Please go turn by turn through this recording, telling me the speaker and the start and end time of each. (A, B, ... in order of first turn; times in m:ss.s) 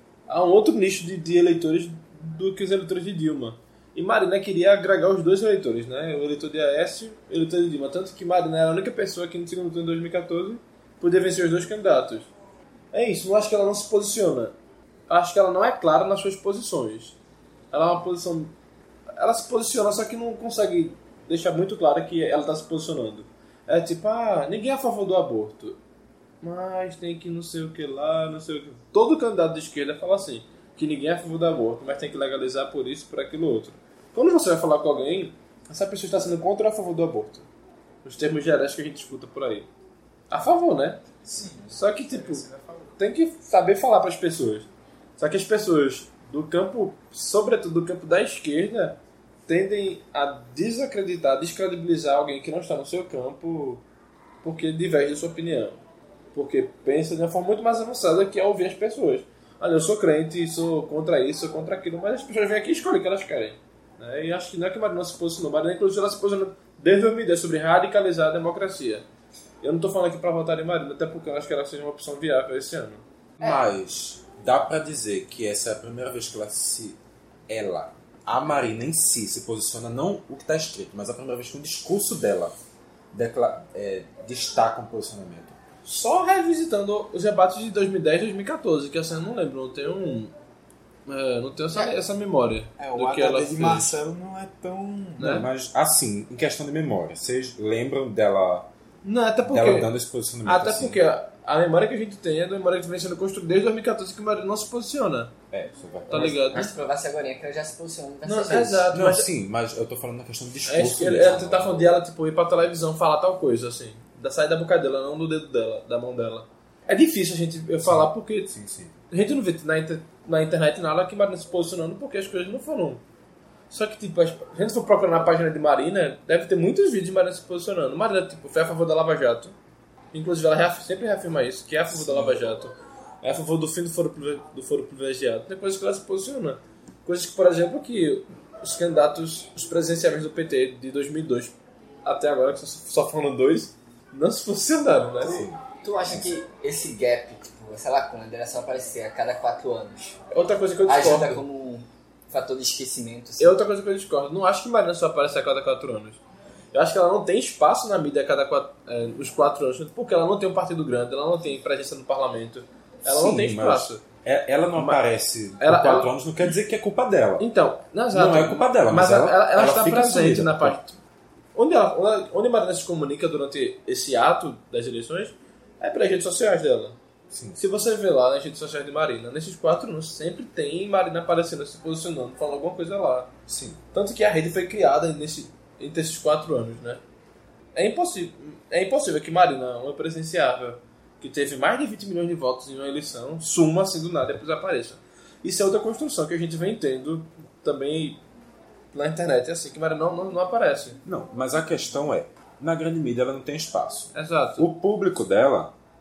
0:00.3-0:12.3 A
0:12.9-0:14.5 A
0:15.1-0:17.2 A
0:17.7-0:18.5 A
0:19.2-0:25.8 A
0:26.4-0:37.5 A
0:38.0-0:39.7 A
0:40.3-0:41.0 A
0:41.2-0:42.9 B
0:41.7-0:42.4 A
0:43.0-0:53.8 A
0:54.4-0:55.8 A
0:56.3-1:09.0 A
1:09.6-1:13.0 A
1:13.4-1:22.5 C
1:23.1-1:25.6 C
1:25.8-1:30.3 A
1:31.0-1:33.9 A
1:32.8-1:35.3 B
1:35.2-1:35.4 A
1:35.2-1:38.7 C
1:39.0-1:39.9 A
1:39.4-1:41.0 C
1:40.4-1:45.3 A
1:45.5-1:46.7 C
1:46.1-1:46.7 A
1:46.1-1:48.9 D
1:48.2-1:49.3 A
1:48.9-1:51.9 C
1:50.6-1:58.5 A
1:57.8-1:58.9 C
1:59.1-2:03.0 A
2:03.7-2:09.5 A
2:10.1-2:25.4 A
2:11.9-2:12.4 C
2:25.2-2:26.3 C
2:25.3-2:30.2 D
2:30.3-2:31.4 A
2:30.8-2:33.6 D
2:33.4-2:36.2 A
2:36.7-2:44.0 A
2:43.0-2:47.5 C
2:45.6-2:46.1 A
2:47.4-2:51.0 A
2:48.1-2:50.8 C
2:51.5-2:57.0 A
2:57.3-2:57.6 C
2:57.6-3:03.3 A
3:03.5-3:03.8 C
3:03.9-3:07.0 A
3:07.7-3:18.2 A
3:18.9-3:21.0 A
3:21.0-3:25.7 C
3:24.1-3:24.7 A